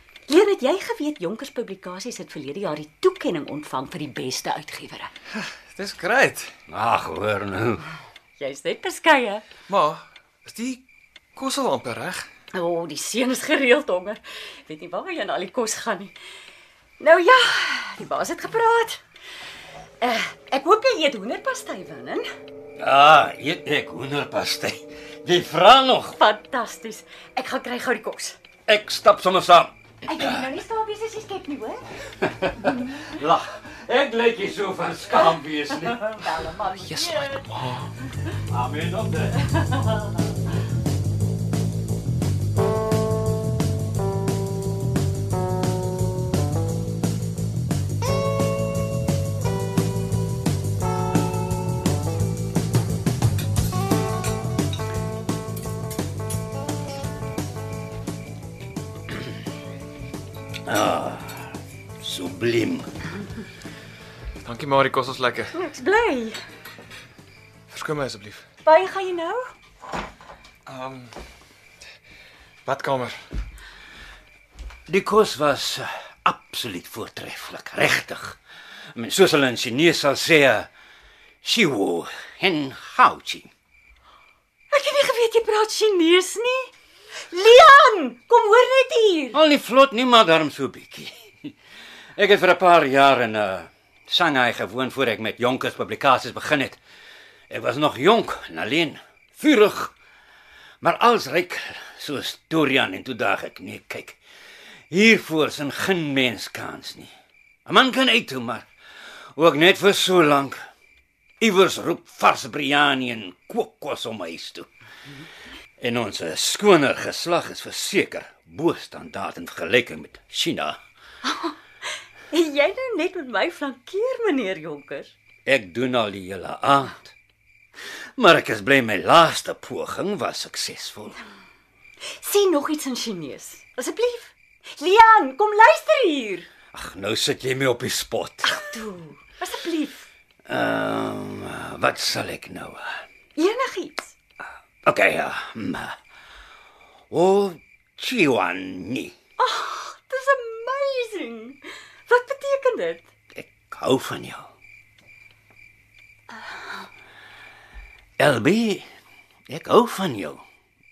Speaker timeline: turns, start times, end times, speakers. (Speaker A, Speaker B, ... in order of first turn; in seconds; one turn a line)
Speaker A: 0.3-5.1
Speaker B: 5.3-6.5
Speaker C: 6.7-7.8
Speaker A: 8.4-9.4
Speaker B: 9.7-10.8
Speaker B: 11.4-12.3
Speaker A: 12.5-16.1
Speaker A: 17.0-19.0
Speaker A: 20.0-22.3
Speaker C: 22.8-26.2
Speaker A: 26.1-28.4
Speaker C: 28.7-29.7
Speaker A: 30.1-31.9
Speaker C: 32.2-36.1
Speaker A: 35.7-37.5
Speaker B: 36.8-37.9
Speaker C: 38.5-39.5
Speaker C: 60.7-62.9
Speaker B: 64.5-65.5
Speaker A: 65.5-66.4
Speaker B: 67.7-68.5
Speaker A: 68.7-69.5
Speaker B: 70.7-71.1
Speaker B: 72.7-73.2
Speaker C: 74.9-78.4
Speaker C: 79.0-80.7
Speaker C: 81.4-83.5
Speaker A: 84.7-86.7
Speaker A: 87.3-89.4
Speaker C: 89.3-91.5
Speaker C: 92.2-96.8
Speaker C: 97.5-99.9
Speaker C: 100.8-104.2
Speaker C: 104.9-107.1
Speaker C: 107.7-108.7
Speaker C: 109.3-110.6
Speaker C: 111.4-114.7
Speaker C: 115.8-120.8
Speaker A: 121.2-121.6
Speaker A: 122.3-125.1
Speaker C: 125.5-127.1
Speaker C: 128.2-131.2
Speaker A: 132.0-136.5
Speaker C: 136.7-138.6
Speaker A: 138.4-140.1
Speaker C: 140.5-143.0
Speaker A: 143.4-144.2
Speaker C: 144.8-146.0
Speaker C: 147.1-149.2
Speaker A: 149.4-153.1
Speaker C: 153.3-154.5
Speaker A: 156.3-156.6
Speaker C: 158.2-158.9
Speaker C: 159.5-160.4